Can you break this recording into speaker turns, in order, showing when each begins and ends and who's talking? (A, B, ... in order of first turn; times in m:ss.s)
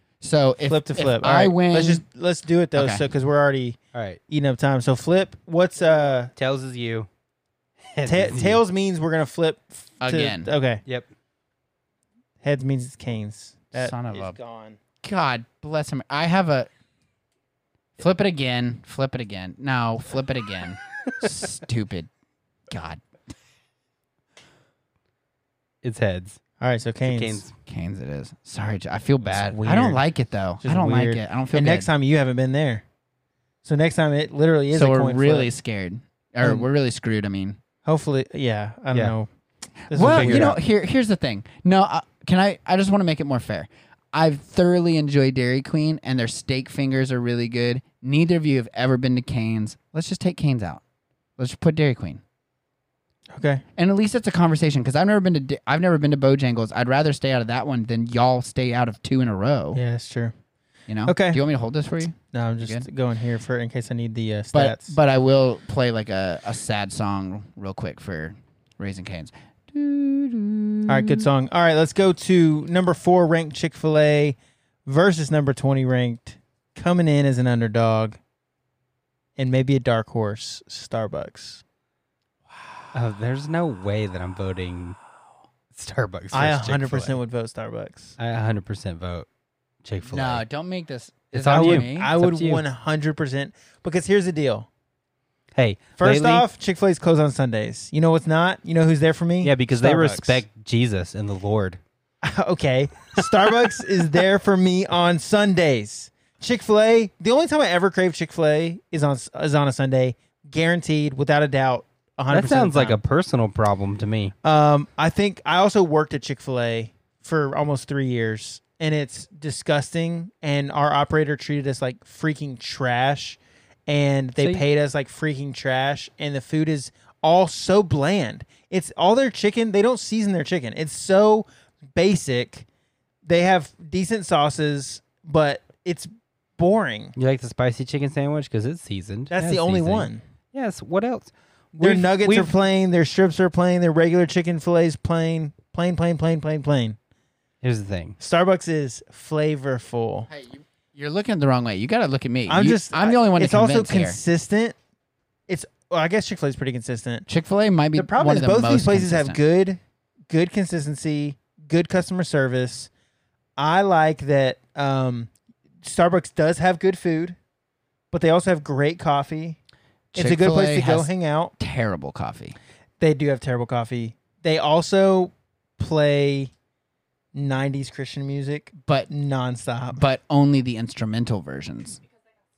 0:00.2-0:02.0 A
0:00.6-0:03.8 B
0:02.7-0:03.0 A
0:03.9-0:04.2 C
0:04.3-0:06.3 B
0:06.4-0:07.1 C
0:07.9-0:08.6 C
0:08.0-0:10.8 B
0:10.0-0:10.5 A
0:12.4-0:14.8 B
0:13.7-0:14.4 A
0:15.0-0:16.7 A
0:18.0-0:22.1 A
0:22.7-0:23.0 A
0:25.8-0:26.4 C
0:26.6-0:27.4 B
0:27.0-0:27.5 C
0:27.6-0:31.9 A
0:29.2-0:30.0 C
0:30.6-0:32.8 B
0:33.6-0:35.5 B
0:34.7-0:37.6 A
0:37.8-0:39.3 B
0:39.9-0:40.5 B
0:39.9-0:50.8 A
0:40.0-0:40.6 C
0:51.4-0:52.2 A
0:53.3-0:53.6 B
0:53.8-0:59.8 A
0:59.7-1:00.3 B
1:00.9-1:02.8 A
1:01.0-1:01.4 B
1:02.3-1:05.0 B
1:04.5-1:11.2 A
1:10.9-1:18.2 B
1:19.4-1:21.6 B
1:22.9-1:25.0 C
1:25.7-1:27.2 C
1:26.3-1:28.2 B
1:28.2-1:29.3 C
1:29.8-1:30.4 C
1:30.0-1:32.1 A
1:31.3-1:32.6 C
1:31.5-1:34.7 B
1:35.5-1:36.4 C
1:36.0-1:40.4 B
1:39.4-1:41.8 C
1:42.2-1:53.0 B
1:52.3-1:54.3 C
1:54.4-2:12.6 B
2:04.4-2:04.6 C
2:13.2-2:17.1 B
2:17.2-2:22.5 C
2:19.3-2:20.2 B
2:21.8-2:27.0 B
2:27.6-2:28.2 C
2:28.2-2:30.3 B
2:30.3-2:34.2 A
2:32.5-2:34.8 B
2:35.5-2:37.3 B
2:37.3-2:39.4 A
2:37.9-2:42.9 B
2:43.6-2:45.3 B
2:45.8-2:47.4 B
2:48.1-2:49.6 B
2:50.1-2:52.6 A
2:50.1-2:51.5 B
2:53.0-2:56.5 B
2:57.3-3:00.0 B
2:58.8-2:59.1 A
2:59.9-3:02.0 A